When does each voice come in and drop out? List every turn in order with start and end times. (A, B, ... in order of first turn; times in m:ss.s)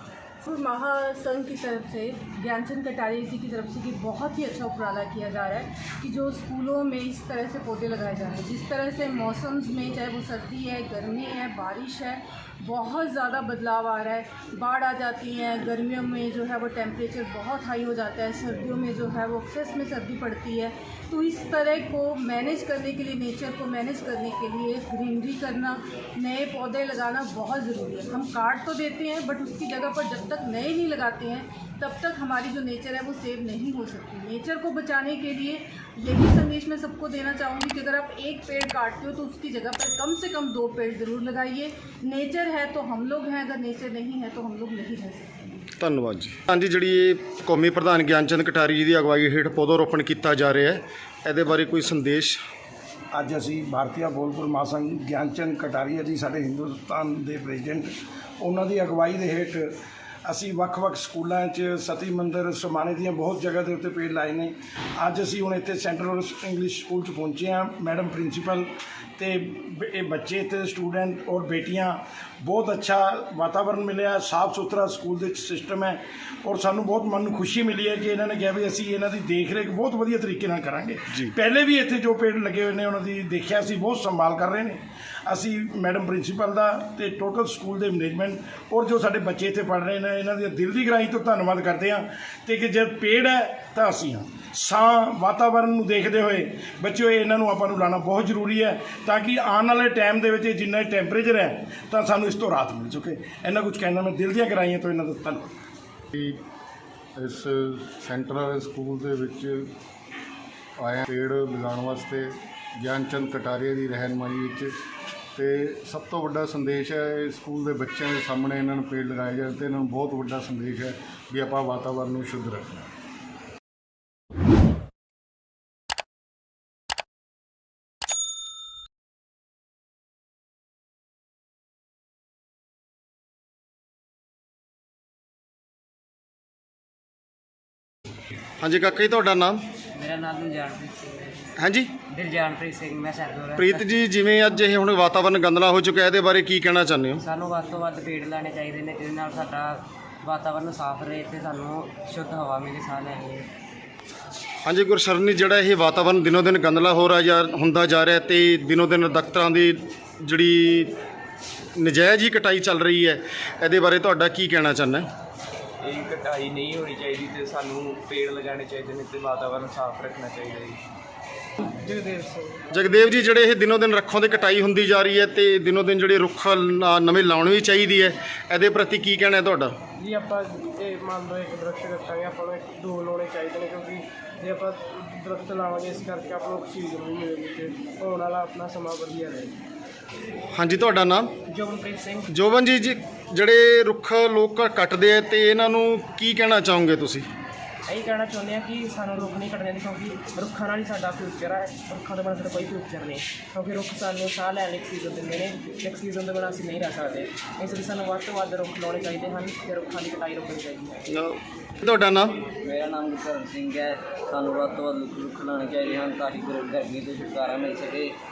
0:00.4-0:45.4 A
0:45.8-0:52.4 B
0:53.1-0:59.7 C
1:00.3-1:45.4 C
1:46.1-1:46.4 D
1:47.2-1:49.7 D
1:50.8-1:54.7 D
1:55.3-2:02.8 D
2:18.6-2:19.6 B
2:19.9-2:21.5 E
2:21.6-2:21.9 B
2:22.1-2:24.0 E
2:23.6-2:27.2 B
2:27.2-2:33.5 E
2:34.6-2:40.9 B
2:41.8-2:45.1 B
2:45.8-2:50.8 F
2:51.8-2:52.6 G
2:52.7-2:59.7 B
3:00.0-3:09.5 G
3:10.5-3:11.3 B
3:11.5-3:12.3 G
3:12.3-3:17.3 B
3:17.9-3:31.0 G
3:31.1-3:32.4 B
3:32.6-3:38.1 H